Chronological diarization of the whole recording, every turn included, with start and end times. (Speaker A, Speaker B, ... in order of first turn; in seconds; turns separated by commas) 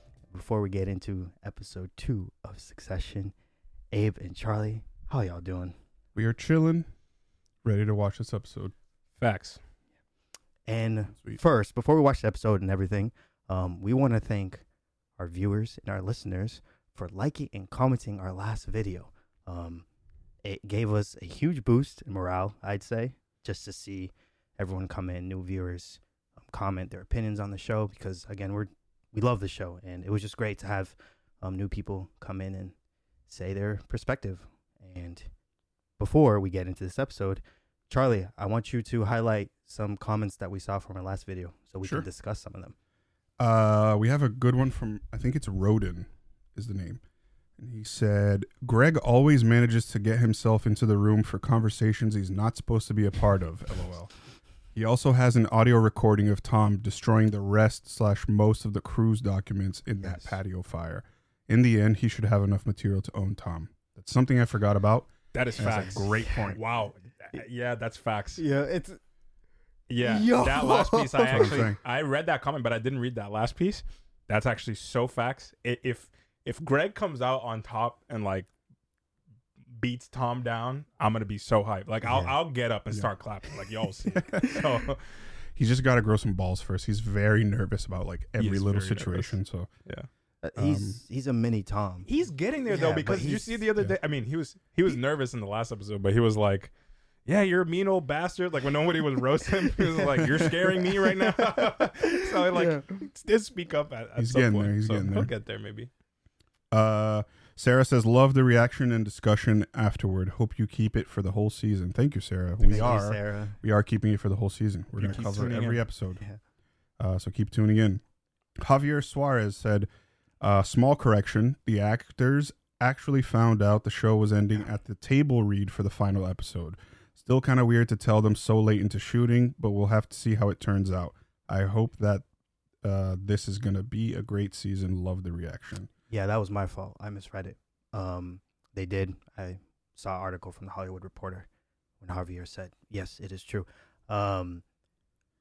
Speaker A: 0.3-3.3, Speaker A: 3.9-5.8, Speaker B: 6.1-6.9, Speaker B: 7.6-8.7, Speaker C: 9.2-9.6, Speaker A: 10.7-14.6, Speaker A: 15.2-19.8, Speaker A: 20.4-32.7, Speaker A: 33.3-35.3, Speaker A: 36.0-42.7, Speaker B: 43.4-47.0, Speaker B: 47.6-54.1, Speaker B: 54.7-66.6, Speaker A: 60.0-60.4, Speaker C: 65.3-68.4, Speaker A: 65.6-66.3, Speaker A: 68.4-69.0, Speaker C: 69.9-78.5, Speaker A: 70.0-71.6, Speaker B: 71.3-71.8, Speaker C: 79.8-85.0, Speaker A: 82.0-82.3, Speaker B: 84.1-84.9, Speaker B: 85.5-89.7, Speaker C: 88.4-90.1, Speaker A: 90.4-92.1, Speaker B: 90.5-91.0, Speaker C: 92.0-96.7, Speaker A: 92.7-93.6, Speaker C: 97.2-105.9, Speaker A: 99.7-102.9, Speaker B: 104.2-105.3, Speaker B: 106.7-116.2, Speaker A: 112.6-113.6, Speaker C: 115.0-115.8, Speaker B: 117.0-118.0, Speaker B: 118.6-119.9, Speaker B: 120.4-132.2, Speaker B: 132.8-135.9, Speaker A: 136.1-141.5, Speaker A: 142.0-144.6